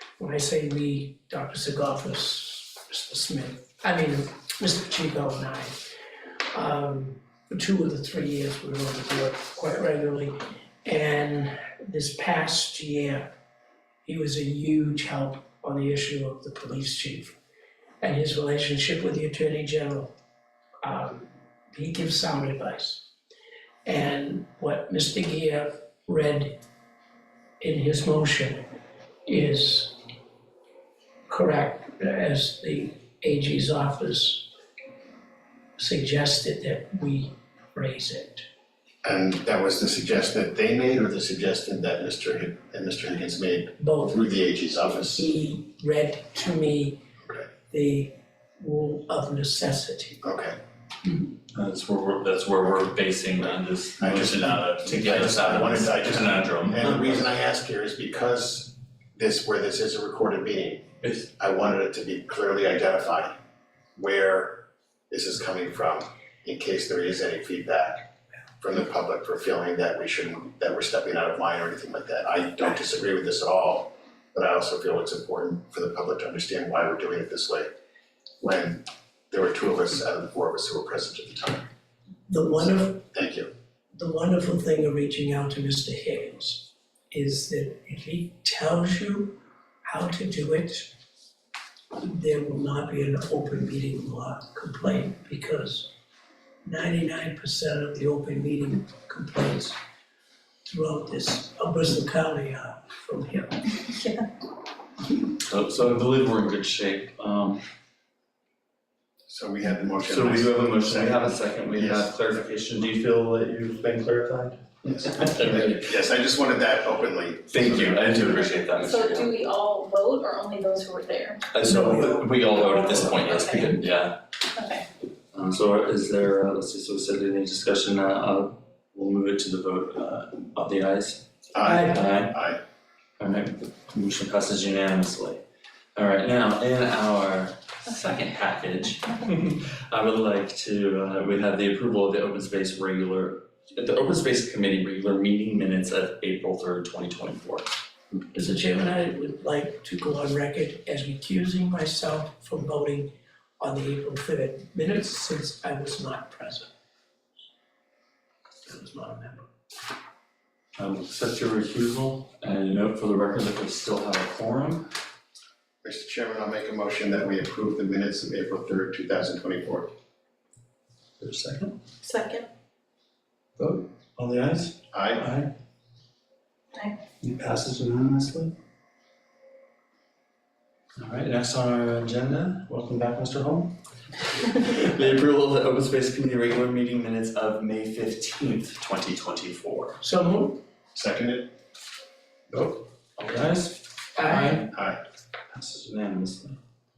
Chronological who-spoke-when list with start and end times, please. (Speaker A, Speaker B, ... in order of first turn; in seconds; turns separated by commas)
Speaker A: 0.2-5.9, Speaker A: 6.5-13.3, Speaker A: 14.0-17.4, Speaker A: 18.0-20.1, Speaker A: 20.8-23.1, Speaker A: 23.8-26.6, Speaker A: 27.6-28.6, Speaker A: 29.2-29.9, Speaker A: 31.3-34.5, Speaker A: 35.8-38.5, Speaker B: 39.0-45.2, Speaker A: 43.8-44.3, Speaker A: 45.0-47.0, Speaker B: 47.2-47.5, Speaker A: 47.7-50.2, Speaker B: 50.2-50.6, Speaker C: 51.5-57.2, Speaker B: 54.0-63.3, Speaker B: 64.0-68.1, Speaker B: 68.6-77.7, Speaker B: 78.4-81.7, Speaker A: 82.3-83.0, Speaker B: 82.6-83.5, Speaker A: 83.9-90.9, Speaker A: 91.9-95.9, Speaker A: 96.6-99.8, Speaker A: 100.7-104.0, Speaker C: 105.4-107.6, Speaker B: 109.2-112.2, Speaker C: 110.0-115.9, Speaker B: 114.8-118.2, Speaker C: 117.5-119.3, Speaker D: 118.8-121.5, Speaker C: 121.5-124.2, Speaker A: 121.6-122.3, Speaker D: 122.5-123.8, Speaker D: 124.5-124.8, Speaker C: 125.3-132.4, Speaker B: 131.5-132.6, Speaker A: 131.6-132.1, Speaker C: 133.2-135.4, Speaker C: 135.9-147.8, Speaker A: 148.3-156.7, Speaker A: 158.6-159.5, Speaker C: 160.8-164.9, Speaker B: 165.8-169.9, Speaker C: 171.2-171.8, Speaker D: 172.0-172.5, Speaker C: 173.6-175.5, Speaker B: 174.9-175.3, Speaker D: 176.7-177.0, Speaker C: 177.2-178.5, Speaker C: 181.0-190.0, Speaker A: 190.0-190.6, Speaker B: 190.9-191.5, Speaker C: 192.5-194.7, Speaker A: 194.1-194.7, Speaker B: 194.7-195.0, Speaker C: 195.5-196.6